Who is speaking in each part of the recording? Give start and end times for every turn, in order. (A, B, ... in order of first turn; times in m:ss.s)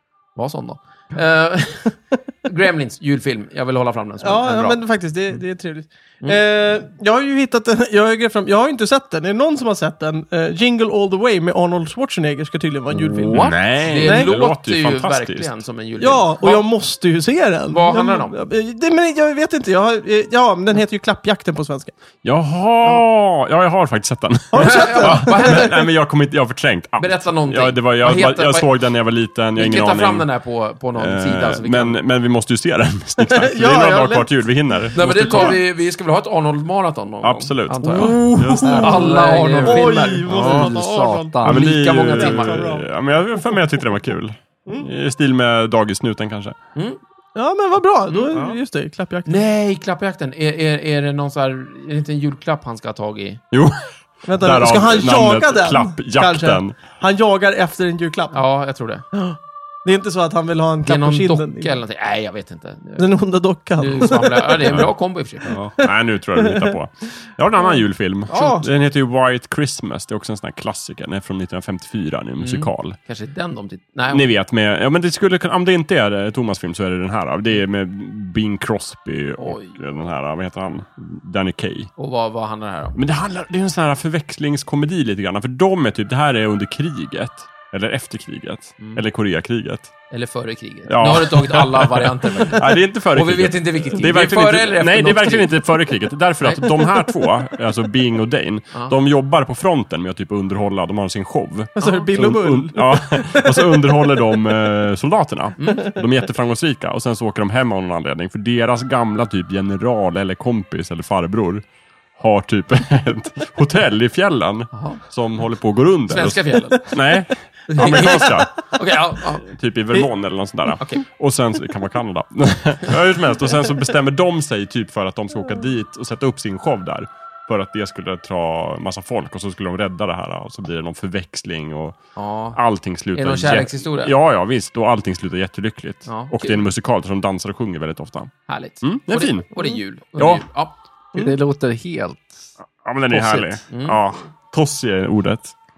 0:00.4-0:04.8 A
0:04.2-0:14.3 B
0:13.0-0:15.5 C
0:13.3-0:16.7 A
0:16.0-0:21.9 B
0:17.7-0:18.4 A
0:22.2-0:30.3 C
0:24.5-0:25.7 B
0:24.6-0:25.8 A
0:27.0-0:28.7 A
0:29.6-0:32.0 A
0:31.0-0:35.6 C
0:33.3-0:34.3 B
0:34.9-0:38.3 A
0:37.2-0:39.1 C
0:37.9-0:41.4 B
0:38.0-0:41.8 D
0:38.8-0:40.7 A
0:40.4-0:40.7 C
0:41.4-0:46.6 C
0:41.4-0:42.8 A
0:42.1-0:42.9 B
0:47.4-0:49.4 B
0:48.1-0:48.5 A
0:49.3-0:53.4 A
0:53.5-0:56.8 C
0:54.2-0:58.4 B
0:58.3-0:59.0 A
0:59.1-1:01.8 B
1:00.8-1:03.1 A
1:03.0-1:04.9 B
1:03.8-1:05.6 A
1:05.5-1:13.0 C
1:05.5-1:06.8 B
1:07.6-1:08.7 B
1:12.4-1:14.3 A
1:14.1-1:21.9 C
1:19.4-1:19.8 A
1:22.0-1:23.0 A
1:23.0-1:29.9 C
1:30.1-1:35.6 A
1:30.9-1:51.6 C
1:36.4-1:37.0 A
1:41.8-1:44.4 B
1:45.6-1:45.9 A
1:52.2-1:58.8 C
1:54.7-1:55.0 A
1:56.1-1:57.0 A
1:57.7-1:59.5 A
1:57.8-1:58.3 B
1:59.4-2:12.0 C
2:12.2-2:12.6 A
2:12.5-2:19.5 C
2:13.1-2:14.2 A
2:16.1-2:16.7 A
2:18.5-2:21.3 A
2:20.2-2:20.4 C
2:21.2-2:22.5 D
2:22.6-2:25.5 C
2:23.1-2:23.6 D
2:23.7-2:24.0 A